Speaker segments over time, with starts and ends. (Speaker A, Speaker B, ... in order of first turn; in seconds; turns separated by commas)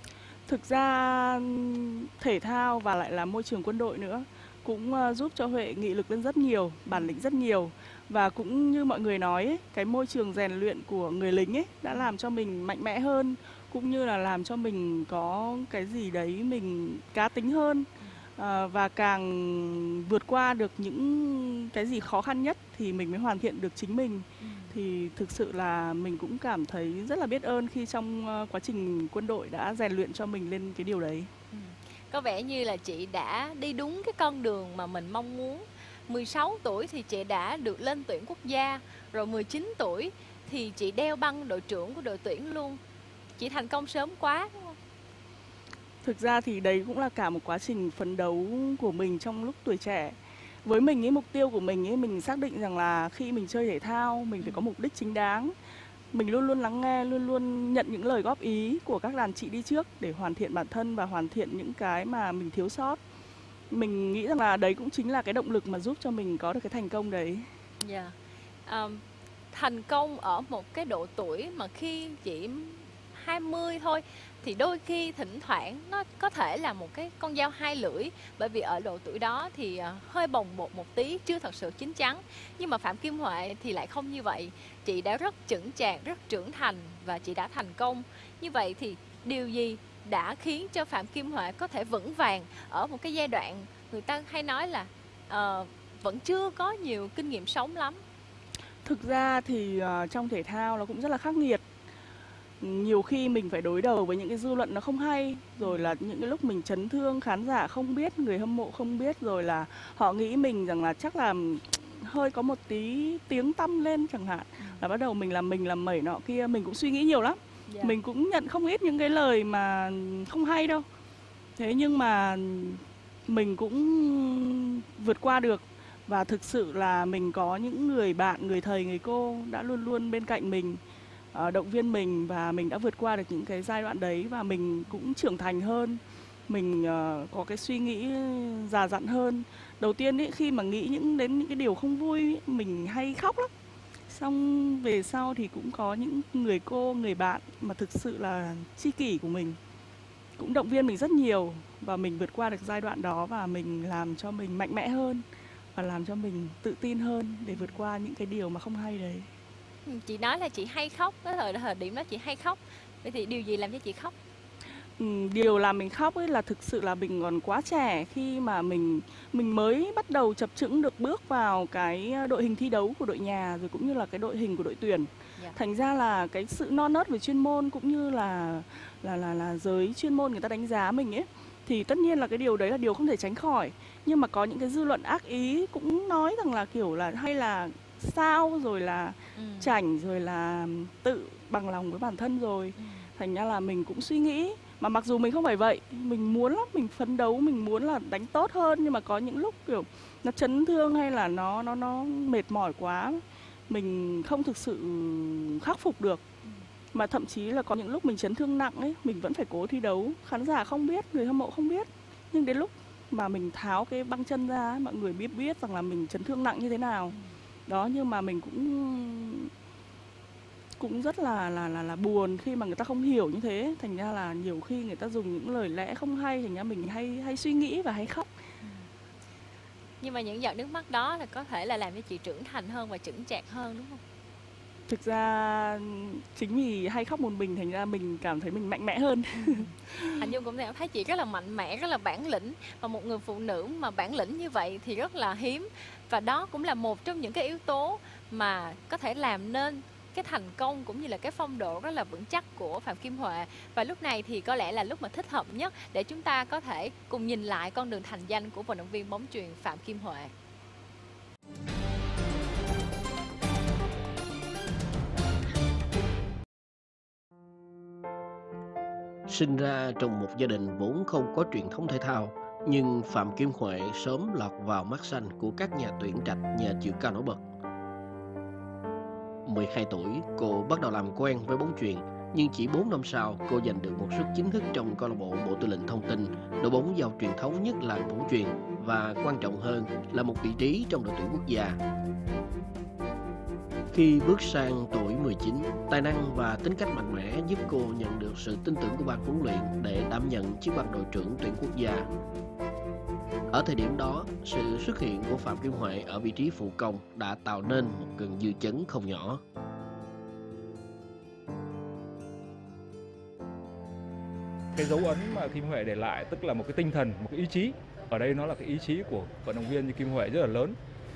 Speaker A: 0.5-31.3, Speaker B: 6.9-7.2, Speaker B: 24.4-24.8, Speaker B: 31.5-42.8, Speaker B: 43.4-44.8, Speaker A: 46.0-55.5, Speaker A: 56.1-63.0, Speaker A: 63.7-67.5, Speaker B: 67.8-98.0, Speaker A: 98.8-101.6, Speaker A: 102.6-120.9, Speaker B: 105.6-105.9, Speaker B: 117.7-118.0, Speaker A: 121.6-130.8, Speaker A: 131.3-143.5, Speaker A: 144.1-149.6, Speaker A: 150.4-155.2, Speaker A: 155.8-159.3, Speaker B: 159.9-164.1, Speaker A: 165.0-206.2, Speaker B: 189.4-189.7, Speaker B: 192.8-193.1, Speaker A: 206.9-219.5, Speaker A: 220.8-228.3, Speaker B: 230.0-234.0, Speaker A: 234.9-240.2, Speaker B: 239.4-260.3, Speaker C: 269.3-277.4, Speaker C: 279.4-291.8, Speaker C: 293.9-302.1, Speaker C: 303.5-309.4, Speaker D: 314.8-320.8